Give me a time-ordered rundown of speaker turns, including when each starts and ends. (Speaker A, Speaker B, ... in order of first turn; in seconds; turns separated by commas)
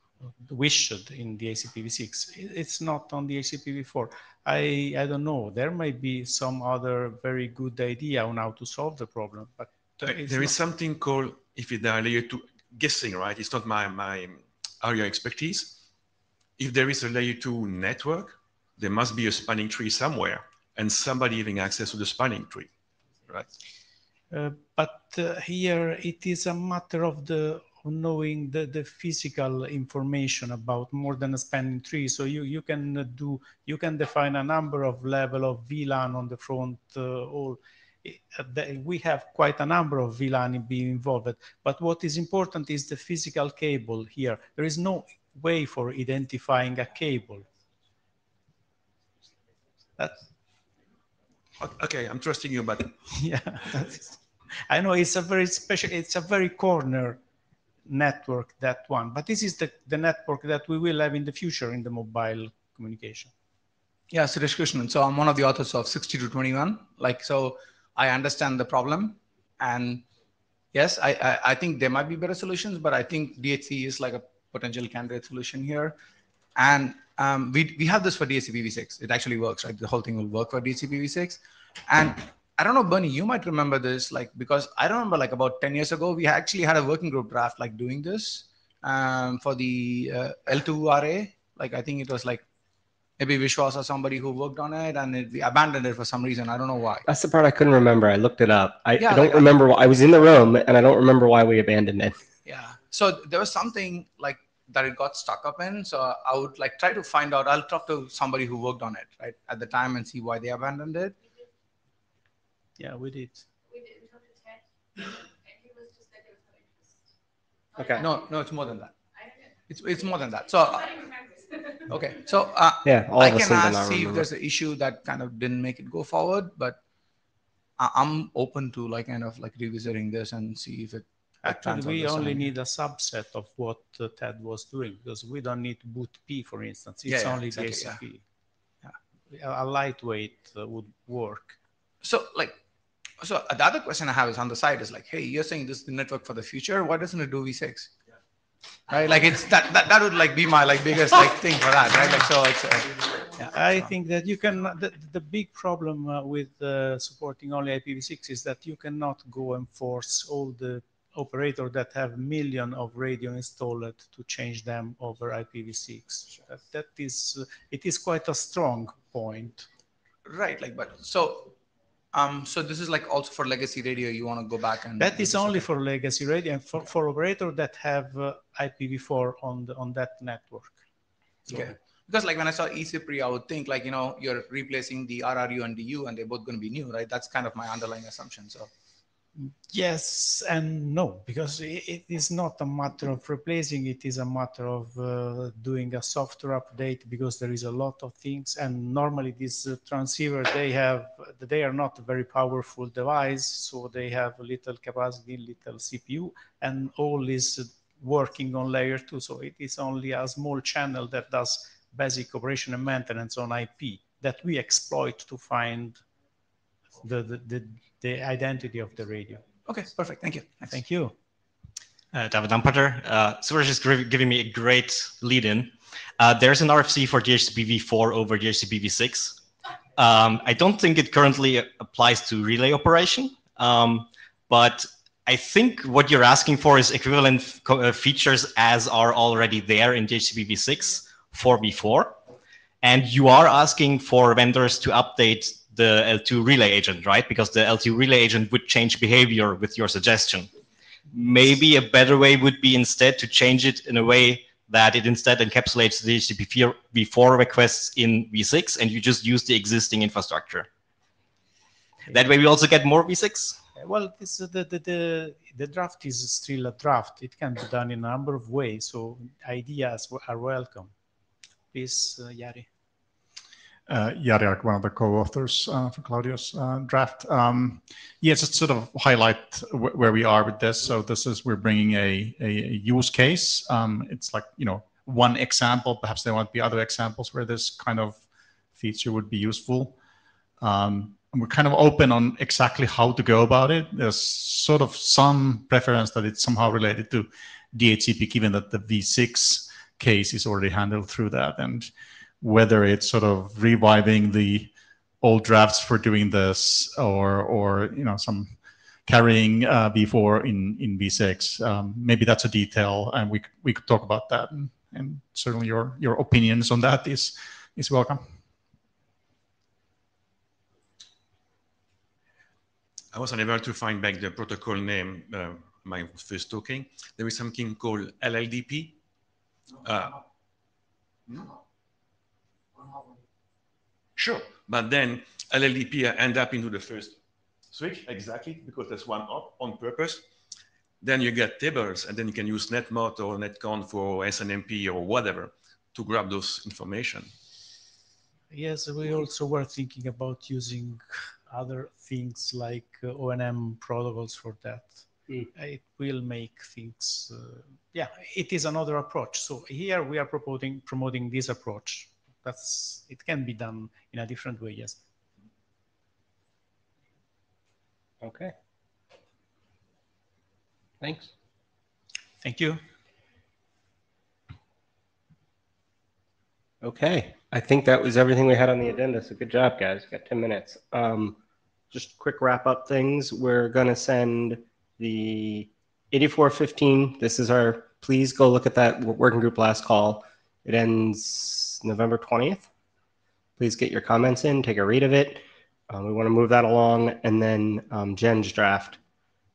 Speaker A: 0.4-10.5, Speaker B: 10.0-15.8, Speaker B: 16.6-22.7, Speaker A: 24.3-47.5, Speaker A: 50.0-50.2, Speaker B: 51.6-53.0, Speaker A: 53.1-54.2, Speaker A: 54.7-57.2, Speaker A: 57.9-63.3, Speaker C: 64.1-70.0, Speaker C: 70.7-76.0, Speaker C: 76.5-92.4, Speaker C: 93.2-97.0, Speaker D: 97.1-102.2, Speaker C: 99.0-99.6, Speaker C: 102.5-111.2, Speaker A: 112.8-113.5, Speaker D: 117.8-118.0, Speaker C: 118.0-118.9, Speaker C: 119.7-121.0, Speaker C: 121.9-126.8, Speaker D: 122.8-124.3, Speaker C: 127.8-132.5, Speaker A: 131.4-138.2, Speaker C: 137.1-138.0, Speaker A: 139.3-141.6, Speaker C: 142.0-142.6, Speaker C: 143.2-147.9, Speaker C: 148.9-153.9, Speaker A: 153.5-169.7, Speaker C: 170.2-171.5, Speaker C: 172.1-175.7, Speaker A: 175.0-180.8, Speaker C: 181.5-188.7, Speaker A: 189.4-216.0, Speaker A: 217.0-219.4, Speaker C: 219.6-220.8, Speaker A: 220.7-221.1, Speaker E: 222.1-229.4, Speaker E: 230.0-242.2, Speaker E: 242.8-250.5, Speaker E: 251.1-260.7, Speaker E: 262.1-263.6, Speaker A: 263.8-270.9, Speaker A: 271.7-272.7, Speaker F: 273.9-288.2, Speaker F: 288.7-290.0, Speaker F: 290.6-301.9, Speaker F: 302.4-318.3, Speaker B: 323.1-329.0, Speaker B: 329.8-330.2, Speaker B: 334.1-337.2, Speaker B: 337.7-340.2, Speaker B: 341.0-347.3, Speaker A: 348.5-365.0, Speaker D: 368.2-368.5, Speaker D: 371.0-371.3, Speaker A: 372.4-372.8, Speaker D: 376.8-381.4, Speaker D: 381.9-392.6, Speaker D: 393.6-399.0